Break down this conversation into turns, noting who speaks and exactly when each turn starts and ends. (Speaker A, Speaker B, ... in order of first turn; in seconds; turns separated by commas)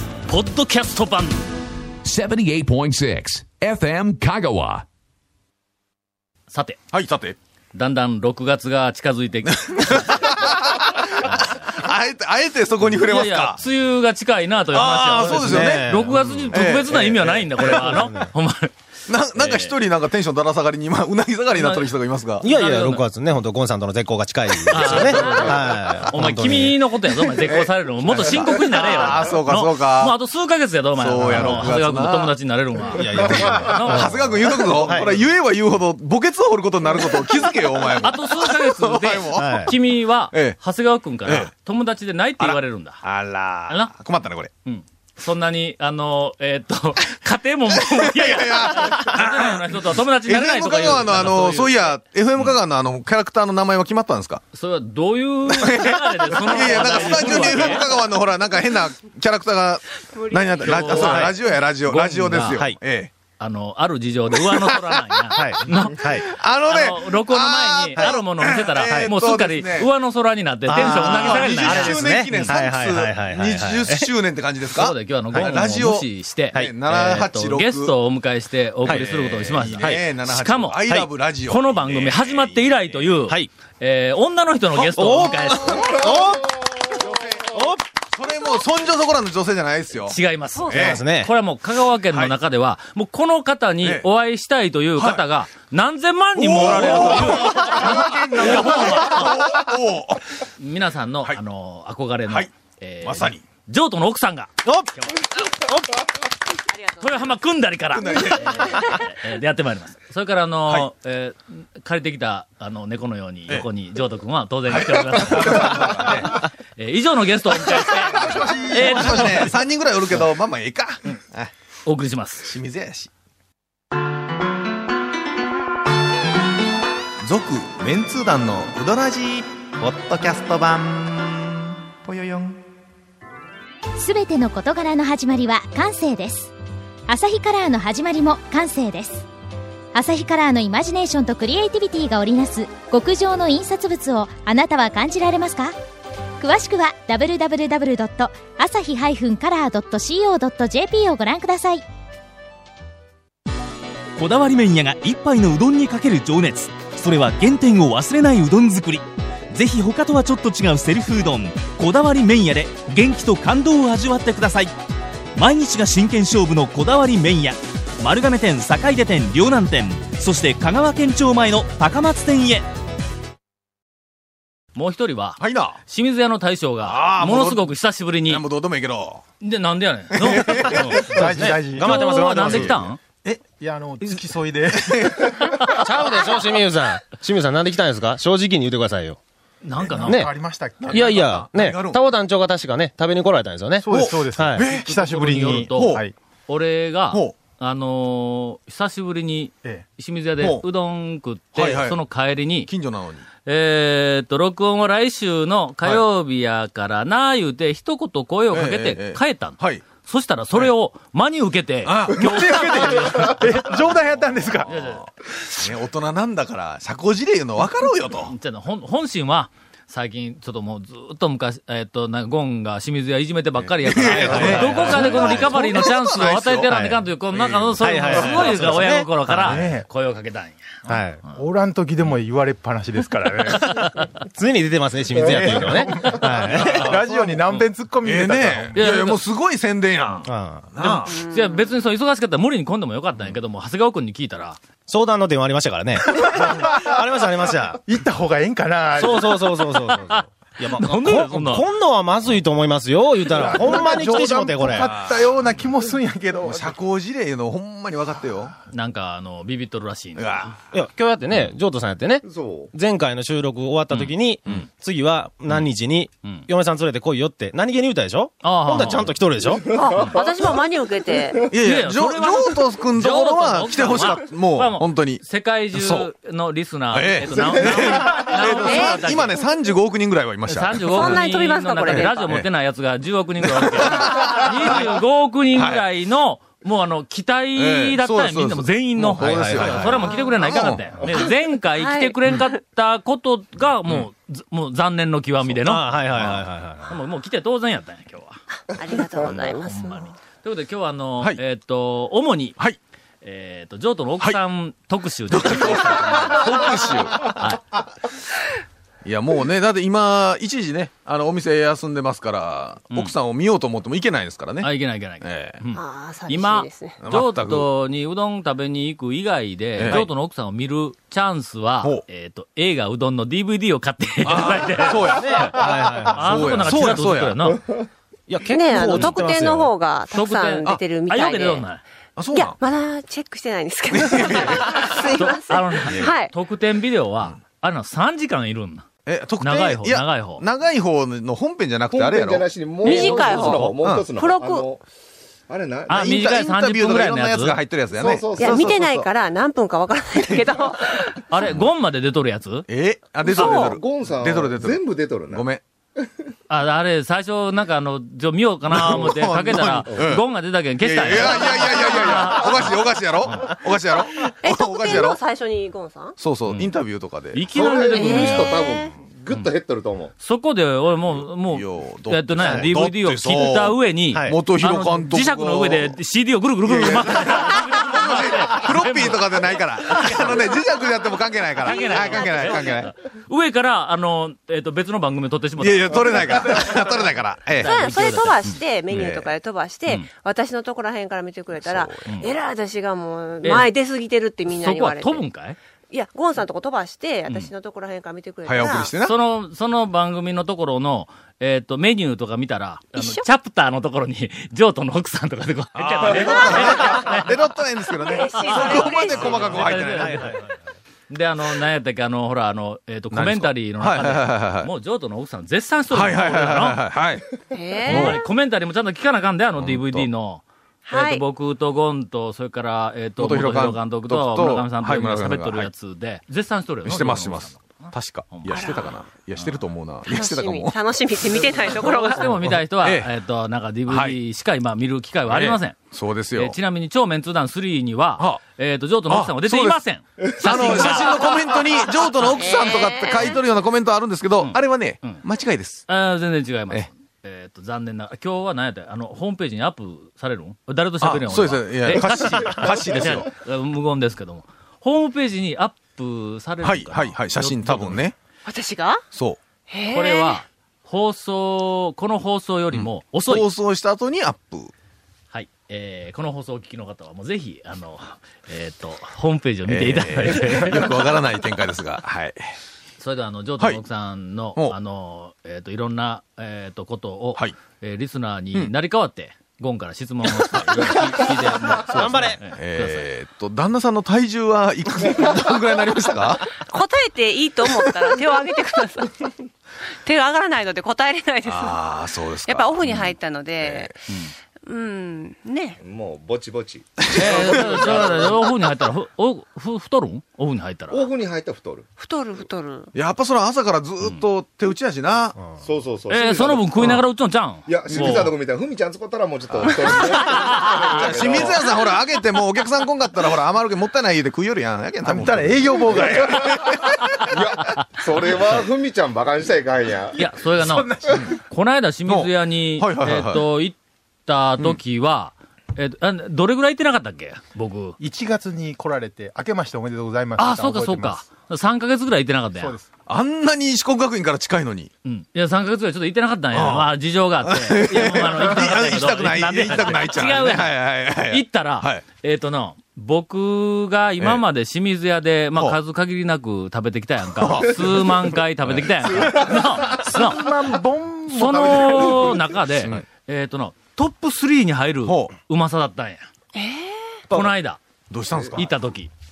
Speaker A: 0.2-1.4, Speaker B: 2.0-4.8, Speaker A: 6.5-6.8, Speaker C: 6.9-7.4, Speaker A: 7.7-10.5, Speaker C: 9.4-13.6, Speaker A: 11.2-11.7, Speaker A: 12.9-18.7, Speaker C: 14.7-18.1, Speaker D: 15.2-16.5, Speaker D: 17.6-18.3, Speaker C: 19.1-22.4, Speaker A: 19.3-19.7, Speaker A: 21.5-21.9, Speaker A: 22.4-23.0, Speaker D: 22.4-26.8, Speaker A: 24.7-34.1, Speaker C: 27.4-30.1, Speaker C: 30.9-32.3, Speaker D: 31.2-31.7, Speaker D: 32.9-35.2, Speaker C: 33.3-39.8, Speaker A: 38.0-43.0, Speaker D: 39.4-39.7, Speaker C: 40.3-40.6, Speaker C: 41.2-41.5, Speaker C: 42.4-44.5, Speaker A: 43.7-43.9, Speaker A: 44.6-51.9, Speaker C: 47.8-54.4, Speaker A: 54.5-57.9, Speaker C: 55.5-63.1, Speaker E: 60.1-61.1, Speaker A: 60.6-62.6, Speaker A: 63.4-72.6, Speaker C: 64.3-69.9, Speaker D: 65.3-66.3, Speaker D: 70.7-74.1, Speaker C: 70.7-78.0, Speaker A: 74.7-80.8, Speaker C: 78.8-83.3, Speaker D: 78.8-79.2, Speaker A: 81.5-85.9, Speaker D: 84.8-86.6, Speaker C: 85.5-86.1, Speaker C: 87.0-87.5, Speaker D: 87.5-87.8, Speaker C: 88.1-90.2, Speaker A: 90.1-99.4, Speaker C: 90.7-91.0, Speaker D: 90.7-91.3, Speaker C: 92.1-92.3, Speaker C: 95.0-95.2, Speaker C: 96.3-100.3, Speaker A: 100.6-105.1, Speaker C: 103.0-103.4, Speaker D: 104.6-106.0, Speaker E: 106.7-107.3, Speaker A: 107.0-119.6, Speaker C: 107.9-109.0, Speaker C: 114.7-116.4, Speaker C: 117.5-121.5, Speaker A: 121.8-122.5, Speaker C: 122.4-123.1, Speaker C: 127.2-132.6, Speaker F: 134.0-136.5, Speaker F: 137.1-139.2, Speaker F: 139.9-145.7, Speaker F: 146.4-151.8, Speaker G: 154.2-164.7, Speaker G: 165.3-172.7, Speaker A: 174.7-178.4, Speaker C: 175.4-175.8, Speaker C: 176.8-177.7, Speaker C: 178.2-179.2, Speaker A: 179.4-181.1, Speaker C: 180.1-181.6, Speaker D: 181.0-182.8, Speaker H: 181.1-182.3, Speaker A: 181.8-183.0, Speaker C: 182.4-183.4, Speaker H: 183.4-185.5, Speaker C: 184.8-185.3, Speaker D: 185.7-189.2, Speaker A: 189.6-190.2, Speaker C: 189.8-190.2, Speaker D: 190.1-190.3, Speaker H: 190.1-191.3, Speaker C: 190.8-192.0, Speaker D: 190.9-194.7, Speaker H: 193.8-196.1, Speaker C: 193.9-194.9, Speaker A: 194.8-202.7, Speaker C: 195.7-196.0, Speaker C: 200.4-200.6, Speaker C: 201.5-202.0, Speaker C: 202.7-203.2, Speaker A: 203.4-213.5, Speaker C: 208.5-209.8, Speaker C: 211.8-218.3, Speaker H: 212.1-214.7, Speaker A: 214.7-215.0, Speaker A: 218.2-230.6, Speaker C: 223.8-228.8, Speaker D: 224.1-225.5, Speaker D: 226.7-227.0, Speaker D: 227.8-229.6, Speaker H: 229.4-229.8, Speaker D: 230.9-231.2, Speaker H: 231.3-234.1, Speaker D: 234.3-237.0, Speaker H: 235.1-238.8, Speaker C: 236.4-237.3, Speaker C: 238.0-241.1, Speaker A: 238.8-239.2, Speaker D: 240.2-240.7, Speaker A: 240.8-244.6, Speaker E: 241.1-241.7, Speaker D: 244.9-247.8, Speaker H: 246.1-246.9, Speaker H: 247.8-249.6, Speaker D: 248.9-254.9, Speaker A: 249.9-251.7, Speaker C: 253.3-255.3, Speaker H: 253.4-256.8, Speaker C: 256.4-258.5, Speaker A: 258.7-260.5, Speaker C: 260.1-260.6, Speaker D: 260.7-269.6, Speaker I: 262.2-262.7, Speaker A: 263.9-264.6, Speaker A: 268.4-269.1, Speaker E: 269.8-271.5, Speaker C: 271.5-276.1, Speaker A: 271.6-279.4, Speaker C: 276.9-281.3, Speaker E: 278.5-279.0, Speaker A: 280.5-298.4, Speaker E: 280.9-282.3, Speaker C: 281.9-282.4, Speaker C: 283.4-285.0, Speaker C: 285.5-285.9, Speaker C: 287.6-291.3, Speaker D: 289.2-290.0, Speaker E: 290.0-290.3, Speaker E: 291.8-292.6, Speaker D: 295.6-297.0, Speaker E: 298.7-300.1, Speaker A: 299.2-302.6, Speaker A: 303.2-307.6, Speaker C: 305.3-307.6, Speaker C: 309.0-315.6, Speaker A: 314.6-325.5, Speaker E: 315.7-317.0, Speaker C: 317.0-317.7, Speaker C: 319.8-320.1, Speaker C: 324.2-327.6, Speaker D: 325.0-326.7, Speaker A: 326.1-327.6, Speaker D: 328.3-329.7, Speaker E: 328.5-331.6, Speaker A: 330.1-331.8, Speaker C: 332.1-332.6, Speaker E: 332.3-336.3, Speaker C: 333.9-335.0, Speaker A: 334.9-338.9, Speaker C: 339.1-344.1, Speaker A: 339.4-340.4, Speaker I: 341.9-344.8, Speaker E: 342.8-344.6, Speaker A: 342.8-343.8, Speaker I: 345.5-346.1, Speaker A: 345.9-347.6, Speaker C: 345.9-348.8, Speaker I: 347.9-349.1, Speaker E: 348.4-351.2, Speaker A: 351.3-352.7, Speaker C: 352.7-355.6, Speaker E: 353.3-353.8, Speaker I: 353.3-355.5, Speaker A: 356.5-363.5, Speaker C: 358.7-360.2, Speaker C: 360.8-365.2, Speaker E: 364.2-366.2, Speaker C: 366.2-367.4, Speaker A: 366.5-366.7, Speaker A: 367.3-368.6, Speaker I: 367.5-370.1, Speaker E: 367.9-368.9, Speaker A: 370.2-379.2, Speaker C: 371.1-376.0, Speaker D: 374.1-374.4, Speaker C: 376.6-382.9, Speaker A: 379.9-380.4, Speaker E: 381.6-382.8, Speaker A: 381.6-386.7, Speaker C: 385.6-387.7, Speaker A: 387.6-388.6, Speaker E: 387.6-395.2, Speaker C: 388.9-389.3, Speaker C: 391.6-392.2, Speaker A: 392.1-392.3, Speaker A: 393.4-393.7, Speaker A: 394.5-395.6, Speaker E: 395.9-398.9, Speaker C: 398.4-399.2, Speaker A: 399.0-407.4, Speaker E: 403.0-403.2, Speaker C: 405.7-410.4, Speaker E: 406.1-407.0, Speaker E: 408.0-409.7, Speaker A: 408.3-410.4, Speaker D: 410.1-410.4, Speaker A: 411.1-416.8, Speaker C: 413.1-414.7, Speaker C: 415.9-417.2, Speaker E: 417.5-418.2, Speaker C: 417.8-418.2, Speaker A: 417.9-428.7, Speaker C: 419.6-420.1, Speaker E: 420.9-421.2, Speaker C: 423.2-425.7, Speaker C: 426.8-430.7, Speaker E: 428.5-428.9, Speaker E: 430.1-432.4, Speaker A: 431.7-435.8, Speaker C: 432.3-433.1, Speaker C: 433.9-434.2, Speaker C: 435.3-436.6, Speaker A: 436.3-441.3, Speaker C: 439.1-439.8, Speaker C: 440.4-445.9, Speaker E: 442.3-443.4, Speaker A: 444.4-445.2, Speaker A: 445.9-458.0, Speaker C: 451.0-453.3, Speaker C: 456.6-458.1, Speaker E: 458.4-459.0, Speaker C: 459.1-459.4, Speaker E: 459.7-460.4, Speaker A: 459.9-463.4, Speaker C: 462.7-464.7, Speaker A: 465.3-470.8, Speaker C: 469.7-472.5, Speaker A: 473.0-483.1, Speaker C: 480.5-480.9, Speaker D: 481.9-482.4, Speaker C: 481.9-486.6, Speaker E: 486.6-489.3, Speaker E: 490.0-493.9, Speaker C: 491.4-493.9, Speaker E: 494.6-495.8, Speaker I: 495.8-498.4, Speaker C: 497.0-498.1, Speaker A: 497.1-501.0, Speaker I: 500.9-501.9, Speaker E: 502.0-502.9, Speaker C: 502.9-505.4, Speaker I: 505.5-507.0, Speaker A: 506.1-508.3, Speaker I: 507.6-511.7, Speaker C: 507.9-508.3, Speaker C: 509.6-509.9, Speaker A: 510.2-511.0, Speaker C: 510.9-516.9, Speaker H: 515.0-516.5, Speaker I: 516.0-516.4, Speaker I: 517.2-520.2, Speaker A: 520.2-528.0, Speaker H: 520.2-521.3, Speaker C: 522.1-523.5, Speaker H: 528.0-531.2, Speaker A: 530.4-532.8, Speaker H: 532.6-532.9, Speaker C: 533.1-534.9, Speaker A: 535.0-550.5, Speaker C: 536.5-542.0, Speaker C: 547.4-549.5, Speaker H: 549.8-552.2, Speaker A: 551.3-556.2, Speaker I: 551.9-552.4, Speaker C: 555.0-555.3, Speaker E: 556.5-557.2, Speaker A: 557.3-557.8, Speaker C: 558.1-558.7, Speaker A: 558.5-559.1